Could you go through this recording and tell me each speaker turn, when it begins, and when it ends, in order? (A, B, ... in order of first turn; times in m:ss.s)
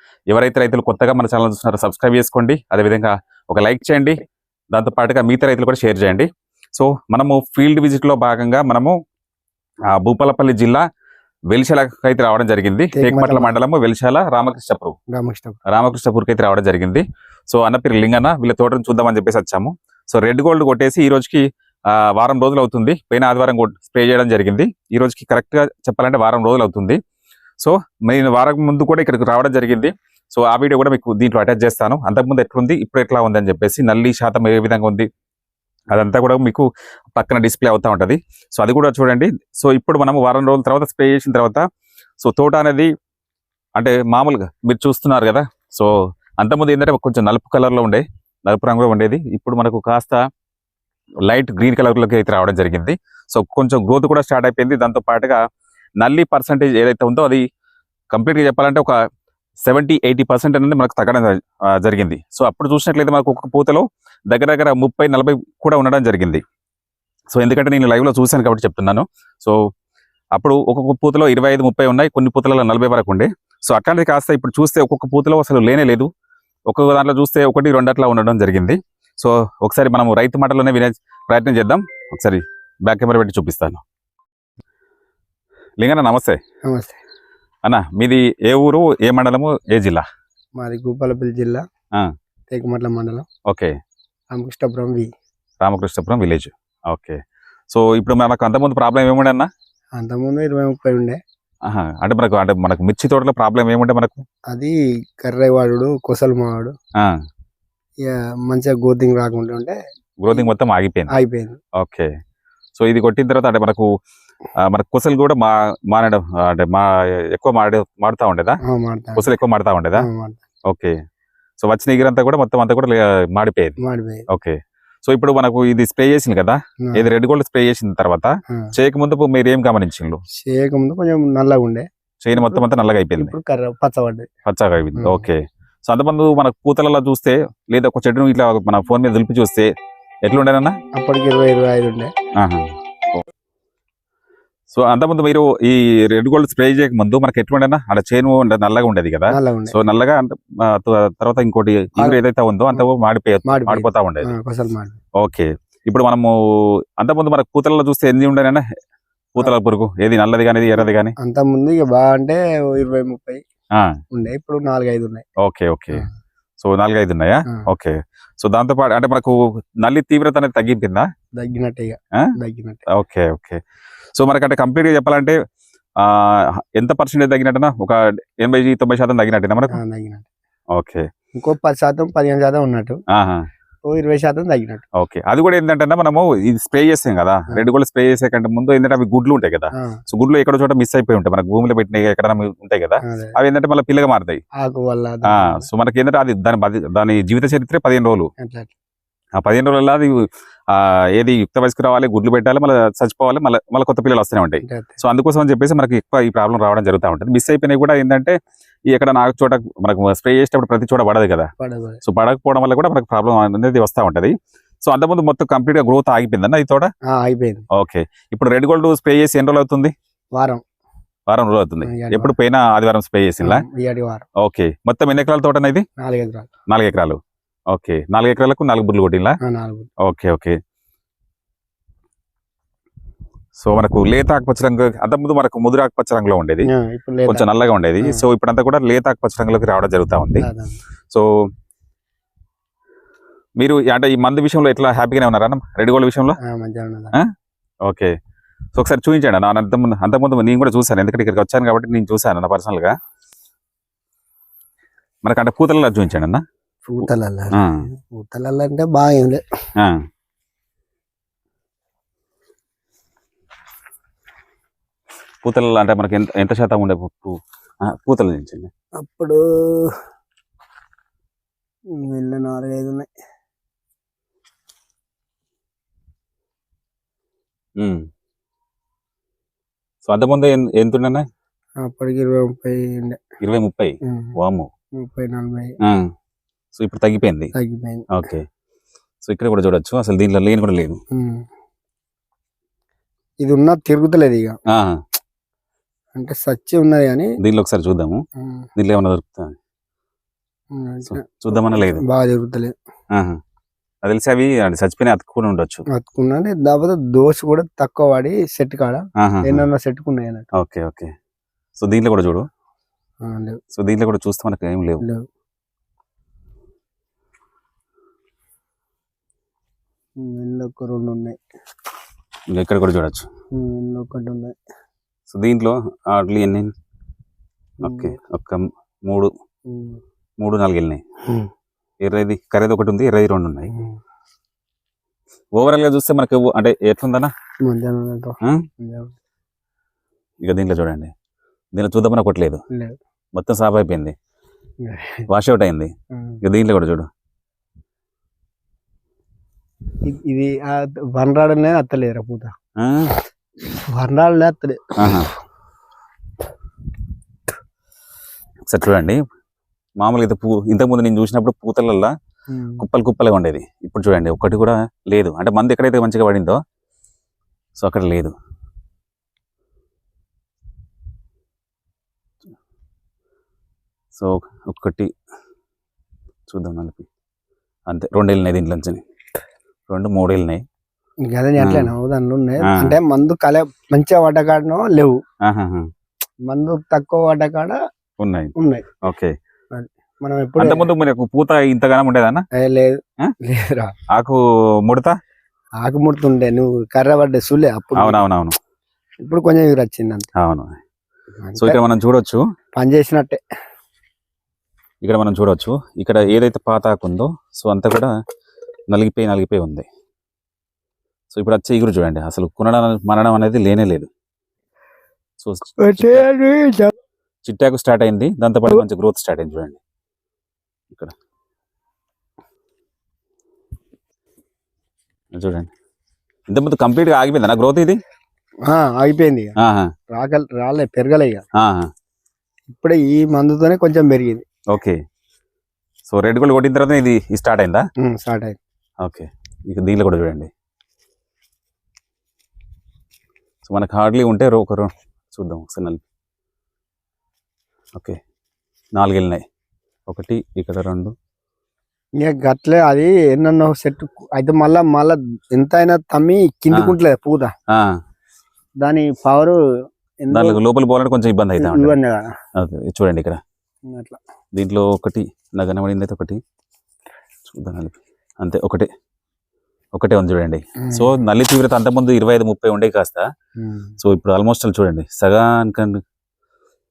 0:00.3-0:04.2 A
0:04.7-0:08.9 A
0:09.9-0:10.8 A
0:11.5-0:15.0 A
0:12.9-0:13.6 B
0:15.1-0:15.6 B
0:15.7-0:27.0 A
0:27.6-0:35.1 A
0:35.9-0:41.6 A
0:42.2-0:42.9 A
0:43.8-0:50.2 A
0:51.3-0:55.4 A
0:56.0-0:57.4 A
0:58.1-0:59.0 A
0:59.6-1:06.4 A
1:07.3-1:09.7 A
1:10.3-1:16.1 A
1:16.7-1:23.8 A
1:25.8-1:26.4 A
1:26.7-1:27.0 B
1:27.6-1:30.0 A
1:30.6-1:31.6 B
1:32.5-1:33.2 B
1:33.5-1:33.7 A
1:34.3-1:35.1 B
1:35.6-1:39.5 A
1:40.0-1:41.2 B
1:41.7-1:44.2 A
1:44.5-1:46.7 B
1:48.0-1:49.8 B
1:50.2-1:51.1 A
1:51.1-1:51.6 B
1:51.8-1:52.1 A
1:52.8-1:53.9 A
1:54.6-1:58.6 A
1:58.7-1:59.3 B
1:59.2-2:00.1 A
2:00.0-2:00.4 B
2:00.7-2:00.9 A
2:01.6-2:03.8 A
2:03.8-2:04.2 B
2:04.3-2:10.2 A
2:10.4-2:12.7 B
2:12.2-2:13.3 A
2:13.2-2:14.3 B
2:14.5-2:19.7 A
2:15.0-2:15.2 B
2:20.2-2:20.8 A
2:21.0-2:22.1 B
2:22.4-2:23.2 A
2:24.7-2:34.3 A
2:29.3-2:29.8 B
2:33.5-2:35.0 B
2:35.2-2:36.3 A
2:37.0-2:38.6 A
2:39.4-2:41.1 A
2:40.8-2:43.4 B
2:44.1-2:45.2 B
2:45.4-2:46.1 A
2:46.6-2:51.1 A
2:51.4-2:52.8 B
2:52.9-2:53.6 A
2:54.1-2:55.4 A
2:56.0-2:59.8 A
2:59.7-3:00.3 B
3:00.7-3:01.1 A
3:01.4-3:03.0 B
3:03.1-3:03.5 A
3:03.9-3:04.8 B
3:05.0-3:14.4 A
3:13.1-3:13.4 B
3:14.6-3:15.7 B
3:15.3-3:18.3 A
3:18.4-3:18.7 B
3:19.4-3:28.4 A
3:24.6-3:25.0 B
3:28.9-3:31.5 A
3:31.6-3:32.0 B
3:32.0-3:36.9 A
3:37.1-3:37.6 B
3:37.7-3:39.9 A
3:40.4-3:40.6 B
3:41.3-3:43.6 A
3:41.8-3:42.4 B
3:43.4-3:44.2 B
3:44.4-3:45.8 A
3:46.0-3:46.5 B
3:46.7-3:47.2 A
3:47.7-3:49.4 A
3:49.4-3:49.9 B
3:50.0-3:50.6 A
3:53.6-3:56.7 A
3:56.7-3:57.4 B
3:57.3-4:00.5 A
4:00.4-4:00.8 B
4:03.6-4:06.4 A
4:06.4-4:07.1 B
4:07.8-4:08.1 A
4:08.8-4:13.0 A
4:15.2-4:16.4 A
4:16.8-4:19.4 B
4:17.0-4:17.8 A
4:25.4-4:28.7 A
4:29.0-4:29.9 B
4:31.9-4:33.1 B
4:40.0-4:41.2 A
4:41.8-4:43.2 B
4:43.4-4:44.7 A
4:44.0-4:44.4 B
4:45.0-4:45.7 B
4:45.8-4:46.1 A
4:46.8-4:47.5 A
4:47.5-4:48.1 B
4:48.1-4:48.4 A
4:49.2-4:51.0 A
4:51.1-4:51.5 B
4:53.4-4:54.6 B
4:54.7-4:55.0 A
4:56.2-4:57.3 B
4:57.4-4:58.2 A
4:58.4-4:58.7 B
4:58.8-4:59.6 A
5:00.7-5:02.8 B
5:01.1-5:02.0 A
5:03.1-5:03.4 A
5:04.0-5:05.8 A
5:05.9-5:10.5 B
5:09.2-5:09.6 A
5:10.6-5:11.1 A
5:11.8-5:12.4 A
5:13.2-5:13.6 B
5:13.8-5:15.0 A
5:20.2-5:21.4 B
5:22.5-5:23.3 A
5:23.5-5:24.6 B
5:25.3-5:26.7 A
5:27.8-5:29.3 A
5:27.8-5:28.1 B
5:29.7-5:30.0 B
5:30.4-5:31.0 A
5:32.0-5:33.7 A
5:35.6-5:37.3 A
5:37.6-5:39.1 B
5:40.4-5:41.1 A
5:41.7-5:42.6 A
5:42.7-5:43.0 B
5:43.3-5:44.2 A
5:44.8-5:45.2 B
5:45.3-5:47.1 A
5:46.1-5:46.4 B
5:50.0-5:52.5 B
5:52.8-5:53.2 A
5:53.8-5:55.2 B
5:55.0-5:55.3 A
5:58.7-5:59.2 A
6:00.0-6:02.1 A
6:02.5-6:02.8 B
6:02.8-6:06.6 A
6:07.8-6:08.3 A
6:14.1-6:15.1 A
6:16.5-6:17.1 A
6:17.9-6:19.0 A
6:19.9-6:20.6 A
6:21.3-6:25.2 B
6:21.6-6:21.9 A
6:22.6-6:23.0 A
6:25.4-6:25.9 A
6:26.5-6:27.8 B
6:28.2-6:29.3 A
6:28.6-6:28.8 B
6:29.7-6:30.9 B
6:30.6-6:32.5 A
6:32.6-6:33.9 B
6:34.1-6:35.2 A
6:35.8-6:38.2 B
6:38.0-6:38.6 A
6:39.2-6:40.3 B
6:40.4-6:40.8 A
6:41.4-6:41.8 B
6:41.6-6:42.4 A
6:42.8-6:43.4 B
6:45.0-6:48.2 A
6:48.9-6:49.9 A
6:51.3-6:54.1 A
6:55.4-6:56.2 A
6:55.8-6:56.9 B
6:57.4-6:59.8 A
7:05.3-7:05.7 A
7:06.5-7:08.0 A
7:08.7-7:09.5 B
7:09.6-7:09.9 A
7:10.1-7:11.4 B
7:11.6-7:11.9 A
7:12.7-7:14.4 B
7:14.7-7:15.0 A
7:16.1-7:17.8 A
7:18.0-7:18.6 B
7:19.0-7:20.5 A
7:23.6-7:26.0 A
7:28.9-7:29.4 A
7:30.1-7:31.1 A
7:32.2-7:37.5 B
7:36.7-7:37.0 A
7:37.7-7:38.0 A
7:38.8-7:39.6 B
7:40.2-7:40.6 B
7:40.3-7:42.0 A
7:41.6-7:42.3 B
7:42.6-7:43.4 A
7:43.9-7:44.2 B
7:44.5-7:46.4 A
7:47.5-7:48.9 A
7:49.9-7:53.3 A
7:50.8-7:51.1 B
7:53.6-7:53.9 B
7:54.0-7:56.0 A